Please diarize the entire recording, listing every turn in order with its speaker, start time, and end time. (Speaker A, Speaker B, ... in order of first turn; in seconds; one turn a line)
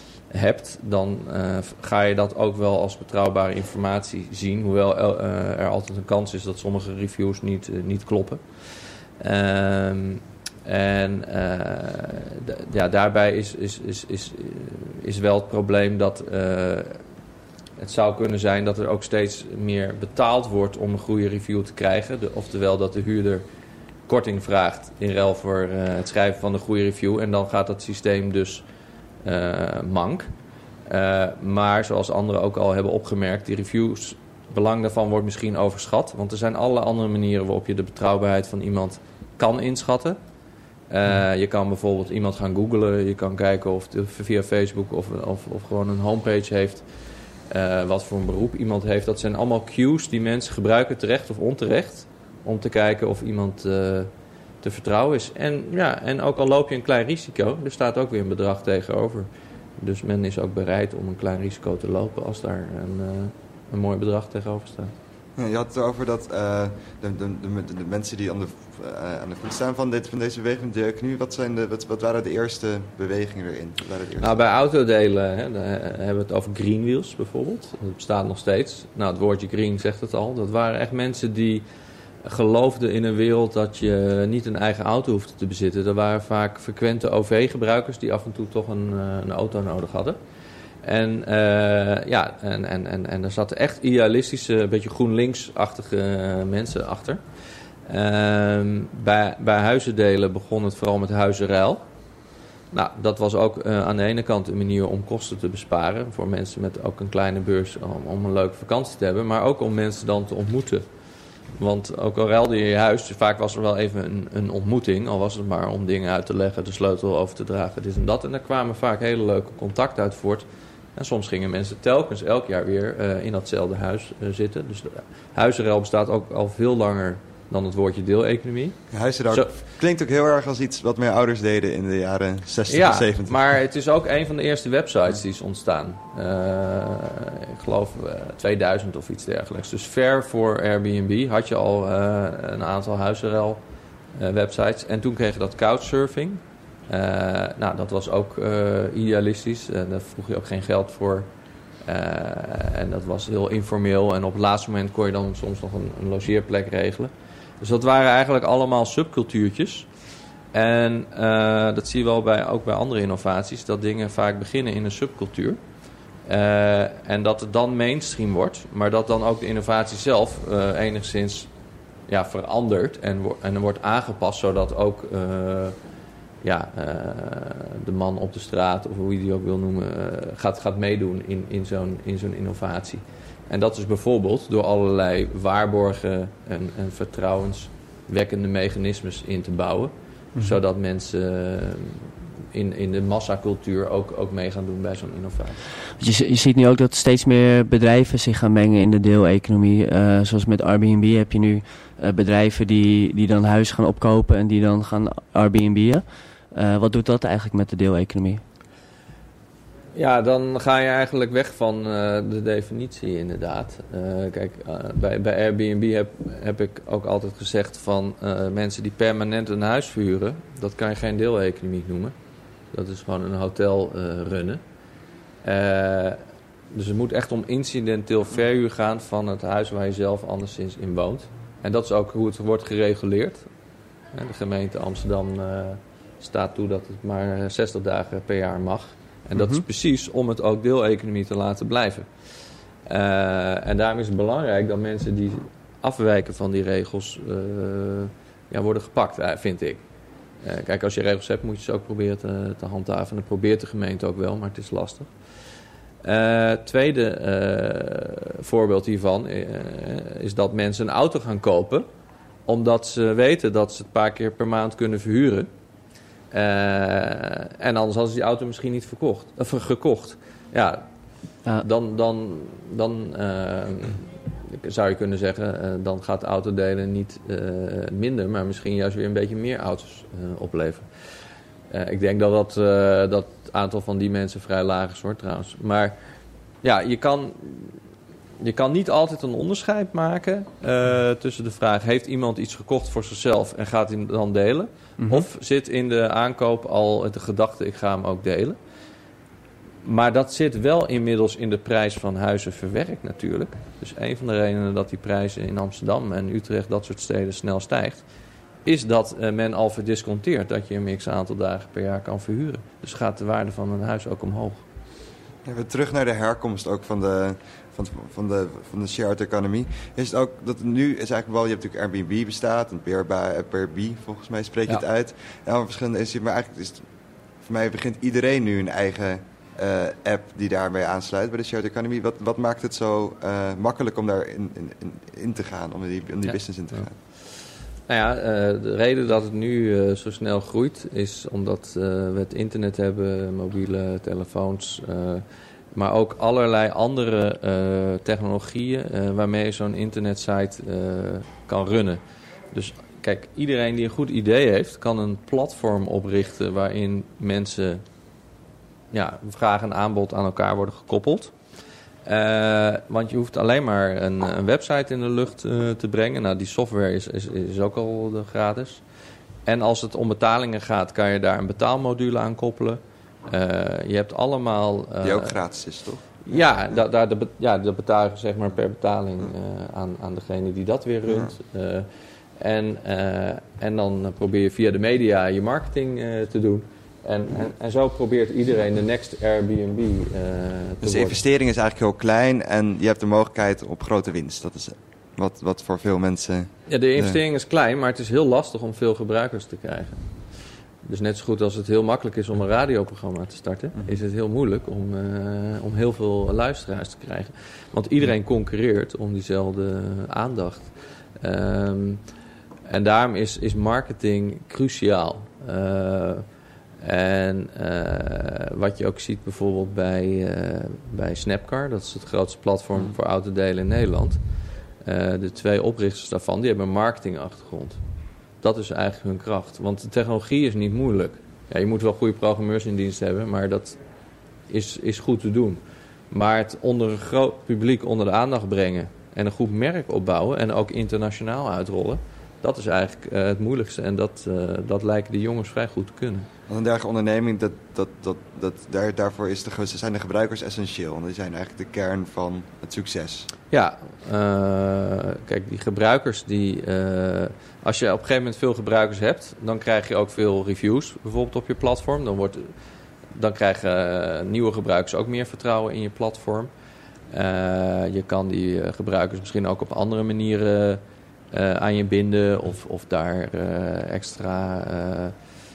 Speaker A: 0.3-17.0
Speaker A: 17.8-23.4
Speaker A: 24.1-28.6
Speaker A: 29.2-30.3
Speaker A: 30.9-40.2
Speaker A: 40.9-46.8
Speaker A: 47.5-54.1
Speaker A: 54.6-59.3
Speaker A: 59.8-64.9
Speaker B: 65.4-74.3
Speaker A: 74.2-81.6
Speaker A: 82.2-90.2
Speaker A: 90.8-97.2
Speaker A: 97.9-101.8
Speaker A: 102.7-110.8
Speaker A: 111.6-120.4
Speaker A: 121.0-128.8
Speaker B: 128.9-133.4
Speaker A: 132.7-143.6
Speaker A: 144.2-151.3
Speaker A: 151.8-159.9
Speaker A: 160.5-165.6
Speaker A: 166.3-171.5
Speaker A: 172.1-175.8
Speaker A: 176.4-195.6
Speaker C: 196.0-208.4
Speaker A: 209.9-222.1
Speaker A: 222.7-224.6
Speaker A: 225.4-233.4
Speaker A: 234.1-242.1
Speaker C: 239.3-239.6
Speaker A: 242.8-249.8
Speaker A: 250.4-255.1
Speaker A: 256.0-261.9
Speaker A: 262.5-265.5
Speaker A: 266.3-270.8
Speaker A: 271.6-280.9
Speaker A: 281.7-286.0
Speaker A: 286.6-287.8
Speaker A: 288.4-298.6
Speaker C: 295.0-295.2
Speaker A: 299.8-308.0
Speaker A: 308.6-314.6
Speaker B: 315.4-326.8
Speaker B: 327.4-336.9
Speaker A: 337.9-352.0
Speaker A: 352.5-357.8
Speaker A: 358.9-361.3
Speaker A: 362.1-368.8
Speaker A: 369.4-375.4
Speaker B: 375.0-376.2
Speaker A: 376.2-381.9
Speaker B: 381.1-381.3
Speaker A: 382.4-391.2
Speaker B: 390.8-397.2
Speaker A: 396.7-400.0
Speaker A: 400.8-412.0
Speaker A: 412.7-416.2
Speaker A: 416.8-424.2
Speaker A: 424.8-427.8
Speaker A: 428.4-433.8
Speaker A: 434.5-435.6
Speaker A: 436.1-446.3
Speaker B: 446.5-453.3
Speaker A: 453.5-462.5
Speaker A: 463.1-466.5
Speaker A: 467.1-475.1